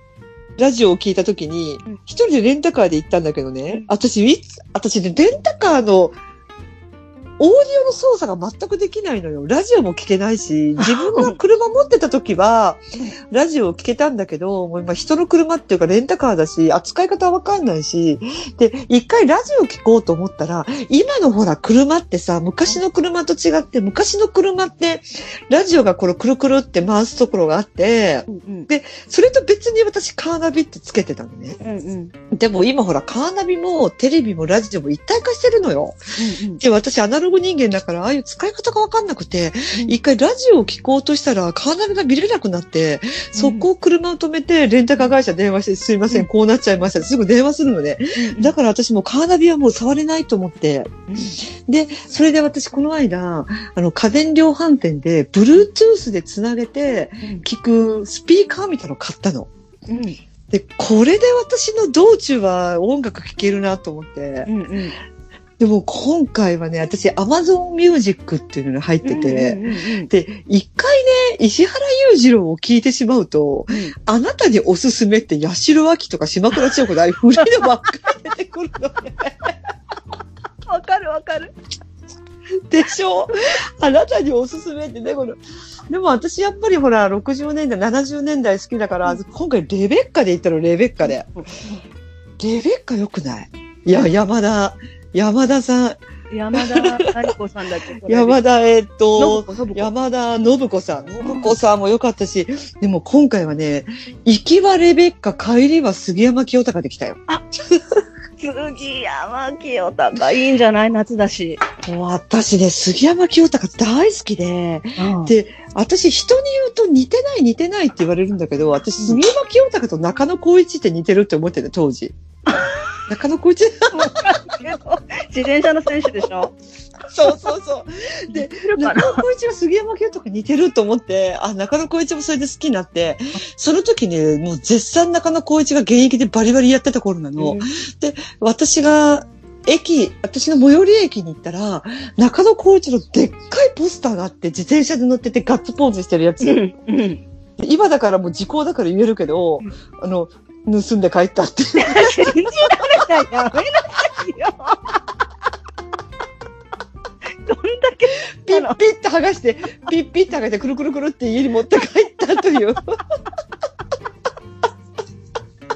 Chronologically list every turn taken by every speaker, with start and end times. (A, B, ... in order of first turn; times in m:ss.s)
0:00.6-0:06.2 A
0:07.4-0:31.6 A
0:10.8-0:11.3 B
0:28.3-0:28.7 B
0:31.6-0:32.1 B
0:32.3-0:36.0 A
0:36.2-0:36.6 B
0:36.6-0:59.5 A
0:39.7-0:40.0 B
0:43.3-0:43.7 B
0:48.2-0:48.5 B
0:59.9-1:00.2 B
1:00.5-1:04.5 A
1:04.5-1:04.9 B
1:05.6-1:19.4 A
1:09.0-1:10.1 B
1:20.7-1:21.5 B
1:22.7-1:31.3 A
1:31.0-1:31.8 B
1:32.4-1:36.0 A
1:36.3-1:38.4 B
1:36.5-1:37.2 A
1:38.0-1:47.2 A
1:39.2-1:39.9 B
1:41.2-1:41.5 B
1:48.4-1:51.6 B
1:51.8-2:02.1 A
1:55.0-1:55.3 B
1:59.0-1:59.2 B
2:02.5-2:03.0 B
2:03.1-2:04.0 A
2:03.9-2:06.5 B
2:07.1-2:26.6 A
2:08.3-2:09.2 B
2:17.4-2:17.6 B
2:26.4-2:27.2 B
2:27.6-2:32.8 A
2:31.8-2:34.8 B
2:37.4-2:38.8 B
2:38.4-2:42.8 A